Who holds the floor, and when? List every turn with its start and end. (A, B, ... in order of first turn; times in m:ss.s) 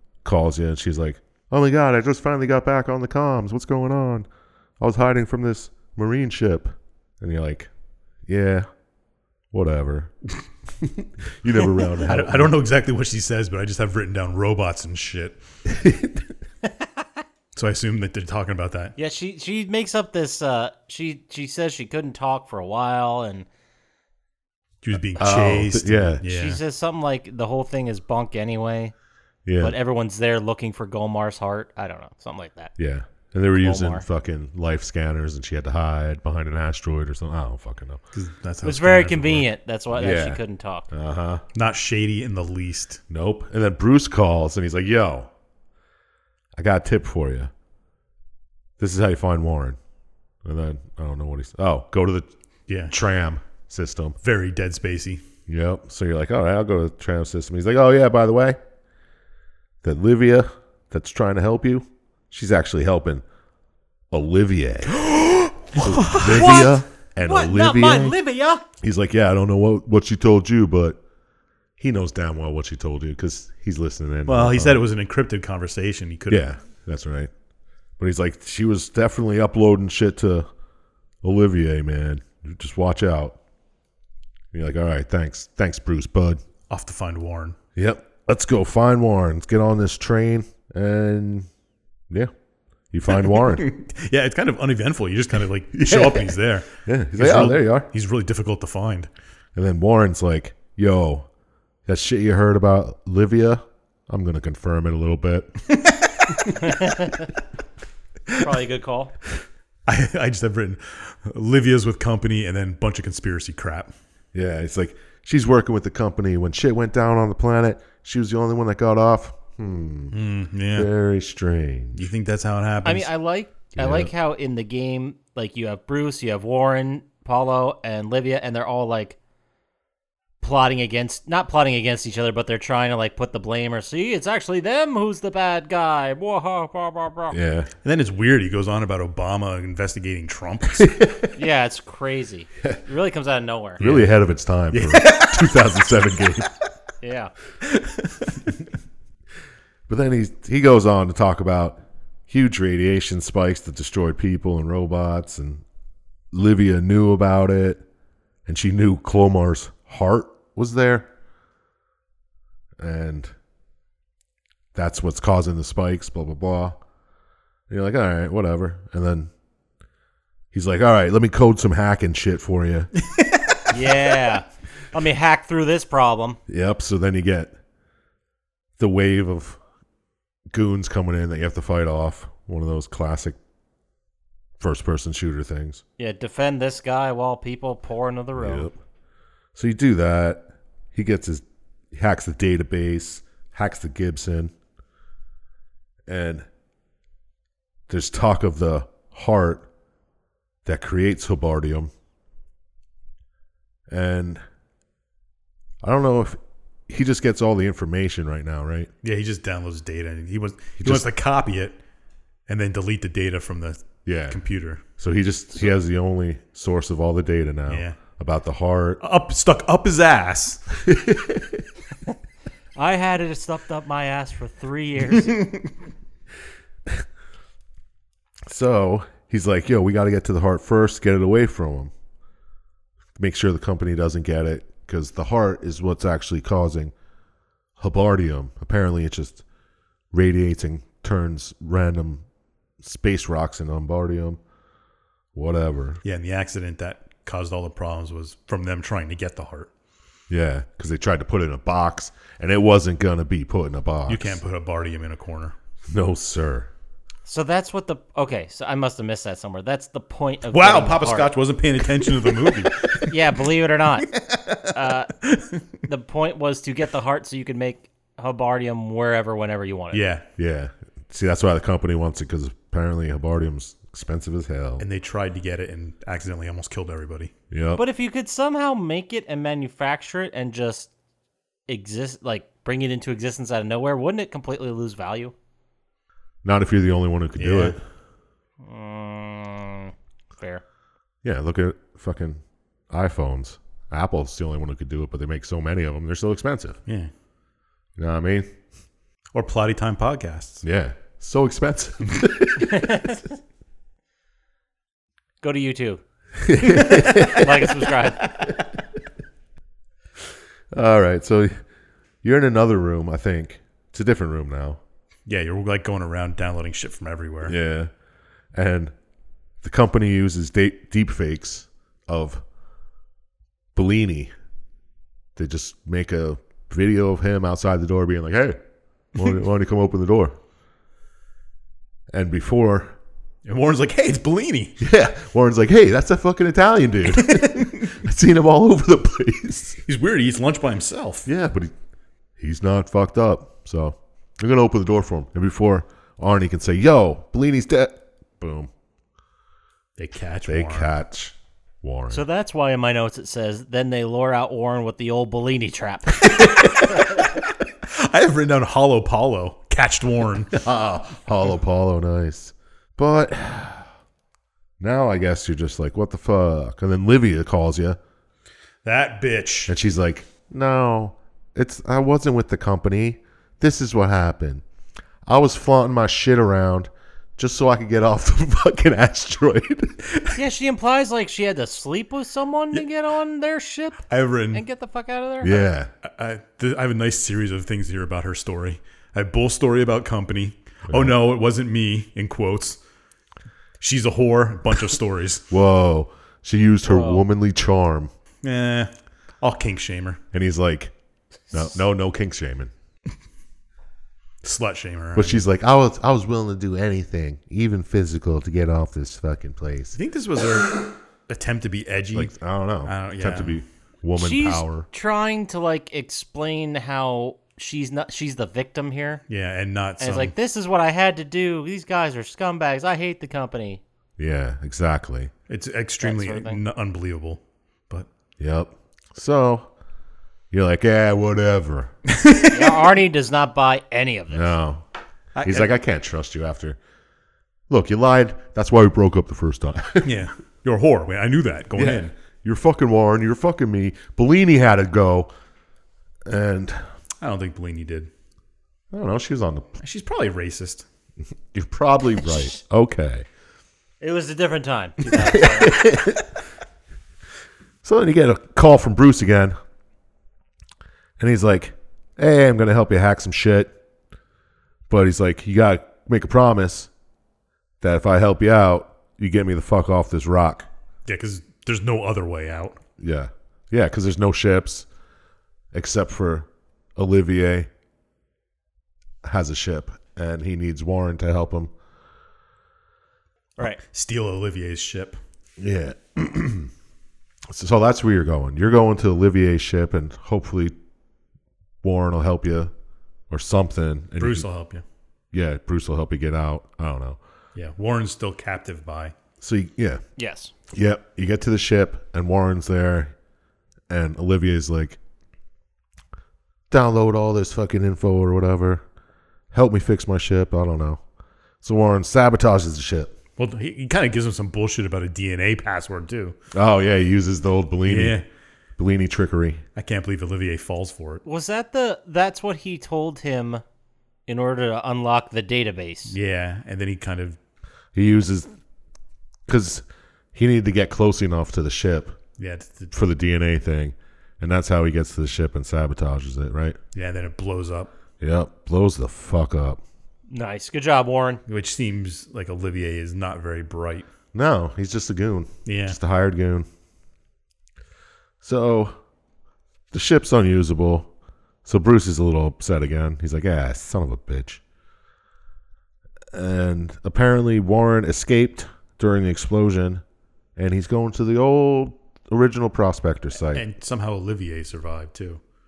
0:00.2-0:04.3 A
0:04.8-0:07.7 A
0:08.3-0:08.6 A
0:09.5-0:10.1 A
0:10.8-0:12.5 A
0:12.0-0:15.4 B
0:15.7-0:16.3 A
0:17.5-0:18.9 B
0:19.0-0:23.4 C
0:24.8-0:26.6 B
0:25.2-0:26.2 A
0:26.2-0:28.9 C
0:29.4-0:29.8 A
0:29.6-0:32.7 C
0:32.8-0:38.0 A
0:33.5-0:34.0 C
0:38.1-0:39.5 B
0:38.6-0:40.9 C
0:39.9-0:41.4 A
0:41.5-0:43.0 B
0:43.1-0:45.3 A
0:46.6-0:47.5 A
0:48.8-0:49.8 A
0:50.4-0:52.3 A
0:52.7-0:53.0 B
0:52.9-0:54.2 A
0:54.2-0:55.2 B
0:55.5-0:58.6 A
0:59.8-1:03.2 A
1:04.1-1:05.1 A
1:04.9-1:06.6 B
1:05.7-1:08.2 A
1:06.1-1:08.6 C
1:08.8-1:11.0 A
1:11.8-1:14.8 A
1:14.2-1:16.5 B
1:16.3-1:17.3 A
1:18.0-1:20.5 A
1:21.2-1:23.4 A
1:24.5-1:26.4 A
1:26.7-1:27.6 B
1:27.8-1:31.5 A
1:32.9-1:33.6 A
1:33.2-1:39.1 B
1:35.7-1:37.9 A
1:39.5-1:41.3 A
1:41.9-1:45.5 A
1:45.8-1:46.6 B
1:46.6-1:47.3 C
1:48.3-1:49.1 C
1:49.9-1:53.9 B
1:54.3-2:00.1 A
2:00.1-2:00.9 B
2:00.7-2:02.1 A
2:01.9-2:03.1 B
2:02.8-2:09.2 C
2:03.8-2:04.1 A
2:10.4-2:17.4 C
2:17.3-2:17.7 A
2:17.8-2:20.9 B
2:20.8-2:21.3 A
2:21.3-2:23.8 C
2:23.8-2:26.5 A
2:23.8-2:24.1 B
2:24.7-2:25.5 B
2:27.0-2:27.3 C
2:27.6-2:28.5 B
2:29.9-2:35.6 A
2:36.3-2:37.8 A
2:38.4-2:41.1 A
2:42.8-2:43.3 A
2:44.7-2:46.8 A
2:47.7-2:49.3 A
2:50.5-2:52.9 A
2:53.0-2:53.9 B
2:53.7-2:56.4 C
2:56.5-2:57.5 A
2:58.8-2:59.6 A
3:00.5-3:03.4 A
3:04.6-3:05.8 A
3:06.0-3:08.7 C
3:08.4-3:08.8 A
3:09.5-3:14.5 A
3:16.1-3:16.5 A
3:17.9-3:19.7 A
3:20.6-3:21.9 A
3:23.9-3:24.4 A
3:25.8-3:28.9 A
3:29.0-3:31.8 B
3:30.8-3:31.0 A
3:32.5-3:34.8 B
3:34.0-3:34.4 A
3:34.9-3:39.0 A
3:37.7-3:38.0 B
3:39.0-3:40.6 B
3:40.7-3:41.6 A
3:42.8-3:45.5 C
3:45.2-3:45.7 B
3:48.4-3:51.9 A
3:53.2-3:56.9 A
3:57.8-3:59.4 A
4:00.1-4:02.2 A
4:02.8-4:04.4 A
4:05.3-4:06.0 A
4:06.0-4:09.7 B
4:10.3-4:14.4 A
4:14.1-4:15.6 B
4:15.9-4:16.7 A
4:17.3-4:21.3 C
4:20.5-4:23.2 B
4:23.0-4:24.2 C
4:24.1-4:25.6 B
4:24.7-4:25.1 C
4:25.9-4:30.0 C
4:29.9-4:30.2 B
4:30.4-4:34.8 A
4:34.8-4:37.3 B
4:37.5-4:37.8 A
4:37.8-4:40.9 C
4:41.7-4:45.3 C
4:46.4-4:47.8 A
4:47.4-4:47.8 B
4:48.6-4:50.6 C
4:51.2-4:56.8 A
4:58.0-4:58.5 A
4:59.3-5:00.6 B
5:00.6-5:03.1 A
5:02.6-5:03.2 C
5:05.4-5:06.0 C
5:06.4-5:07.8 A
5:06.6-5:08.4 C
5:06.8-5:07.1 B
5:10.7-5:11.5 A
5:12.2-5:14.8 A
5:15.3-5:17.6 B
5:17.4-5:17.9 A
5:18.5-5:18.9 A
5:19.6-5:22.4 A
5:23.7-5:24.3 A
5:25.4-5:28.6 A
5:29.1-5:30.4 A
5:32.1-5:33.0 A
5:33.4-5:34.8 B
5:34.8-5:39.8 A
5:37.1-5:38.0 B
5:39.8-5:41.3 B
5:41.2-5:41.7 A
5:42.4-5:48.7 A
5:50.0-5:50.9 B
5:50.5-5:52.2 A
5:52.1-5:57.3 C
5:56.2-6:00.6 B
6:00.5-6:03.9 A
6:04.8-6:08.0 A
6:08.8-6:09.7 B
6:09.7-6:14.6 A
6:15.2-6:20.3 A
6:20.3-6:25.6 C
6:24.1-6:24.6 B
6:25.4-6:25.9 A
6:26.0-6:32.8 B
6:30.9-6:31.1 A
6:33.8-6:35.4 B
6:35.5-6:38.1 A
6:36.9-6:37.2 C
6:38.4-6:40.2 B
6:40.3-6:40.9 A
6:41.5-6:42.7 A
6:44.4-6:45.4 B
6:45.1-6:50.0 A
6:49.9-6:52.3 B
6:52.1-6:54.9 A
6:52.8-6:53.6 B
6:54.2-6:59.2 C
6:59.3-7:00.3 B
7:00.0-7:03.8 C
7:04.2-7:05.3 A
7:05.5-7:08.1 B
7:06.0-7:06.6 C
7:08.4-7:09.7 A
7:10.5-7:11.9 A
7:12.1-7:12.9 B
7:12.5-7:14.5 C
7:14.3-7:14.8 A
7:15.4-7:15.7 B
7:15.4-7:16.8 A
7:17.7-7:20.1 A
7:20.0-7:22.1 B
7:21.8-7:25.3 A
7:26.2-7:26.9 A
7:27.2-7:28.1 B
7:28.9-7:29.8 A
7:29.8-7:30.9 B
7:31.5-7:33.2 A
7:34.0-7:35.9 C
7:35.1-7:36.3 A
7:37.8-7:39.6 A
7:41.2-7:43.7 A
7:44.9-7:46.9 A
7:47.8-7:50.7 A
7:51.0-7:52.8 B
7:53.0-7:54.9 A
7:55.7-7:57.7 A
7:59.2-8:01.7 A
8:03.6-8:05.2 B
8:05.6-8:06.7 A
8:07.5-8:10.7 A
8:11.8-8:12.7 A
8:13.3-8:14.4 A
8:14.2-8:14.8 B
8:15.3-8:17.2 A
8:17.6-8:19.1 B
8:19.4-8:20.0 A
8:20.2-8:20.5 C
8:20.7-8:23.1 A
8:23.9-8:25.0 A
8:26.7-8:28.8 A
8:29.5-8:31.0 A
8:31.6-8:33.1 A
8:33.4-8:36.4 B
8:36.5-8:38.2 A
8:37.8-8:38.2 B
8:38.8-8:39.6 A
8:39.8-8:41.2 B
8:41.2-8:43.6 C
8:44.3-8:46.1 C
8:46.1-8:47.4 B
8:47.9-8:48.5 A
8:49.5-8:52.2 A
8:52.4-8:52.9 B
8:52.9-8:56.8 A
8:56.9-8:57.9 B
8:58.2-8:59.8 A
9:00.3-9:01.4 C
9:01.5-9:04.1 B
9:04.3-9:06.6 A
9:05.6-9:06.0 B
9:08.4-9:09.0 A
9:09.9-9:11.1 A
9:11.6-9:14.6 A
9:16.3-9:20.0 A
9:20.6-9:23.6 A
9:23.5-9:25.4 B